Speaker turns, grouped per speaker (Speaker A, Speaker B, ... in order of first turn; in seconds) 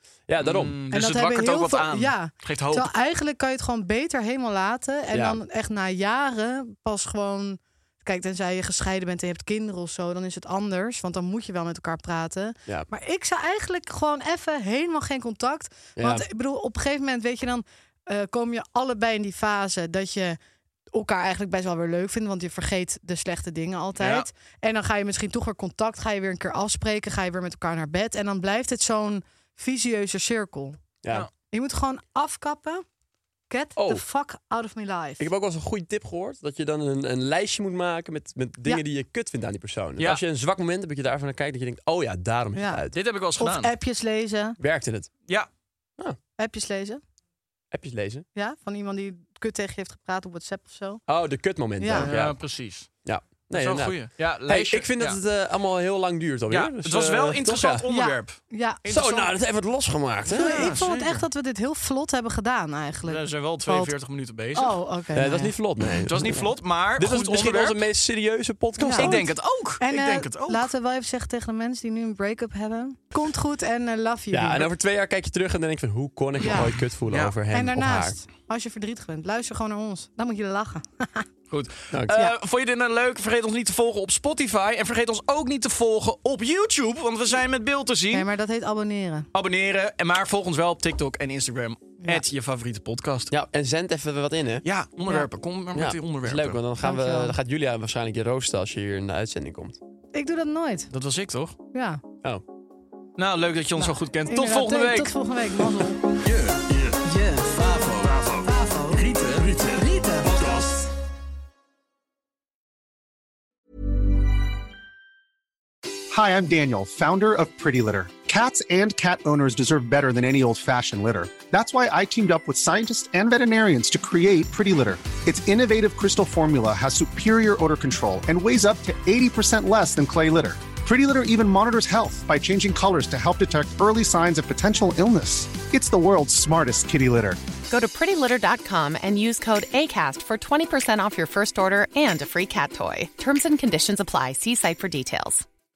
Speaker A: 0.3-0.8, 5.1-5.4, 16.0-16.2, 31.0-31.3, 33.8-34.0, 35.2-43.0, 44.6-45.1, 47.7-48.2, 51.1-57.9, 58.9-60.9, 65.1-69.2, 74.3-78.2, 81.9-82.2, 93.3-94.7, 95.7-99.8
Speaker B: 0.4-2.9, 24.0-24.3, 42.9-43.7, 52.0-52.9, 53.5-55.2, 56.5-59.2, 60.3-61.2, 63.1-64.8, 66.0-67.8, 69.0-70.7, 77.1-77.3, 81.5-88.3, 89.3-93.3, 94.7-96.6, 100.9-101.6, 103.2-105.1, 106.2-108.3, 108.9-109.6
Speaker C: 0.9-20.4, 20.9-30.8, 31.5-32.8, 33.5-35.3, 42.5-42.9, 43.4-44.6, 46.4-47.0, 48.4-51.0, 51.8-52.1, 57.9-59.3, 60.3-63.9, 64.5-65.5, 68.8-69.3, 69.8-74.7, 76.4-76.7, 77.5-81.3, 88.1-89.3, 96.8-97.4, 100.1-100.9, 101.7-102.0, 103.8-106.0, 108.5-108.9, 109.8-110.2
Speaker D: 116.1-137.4
Speaker E: 137.7-145.5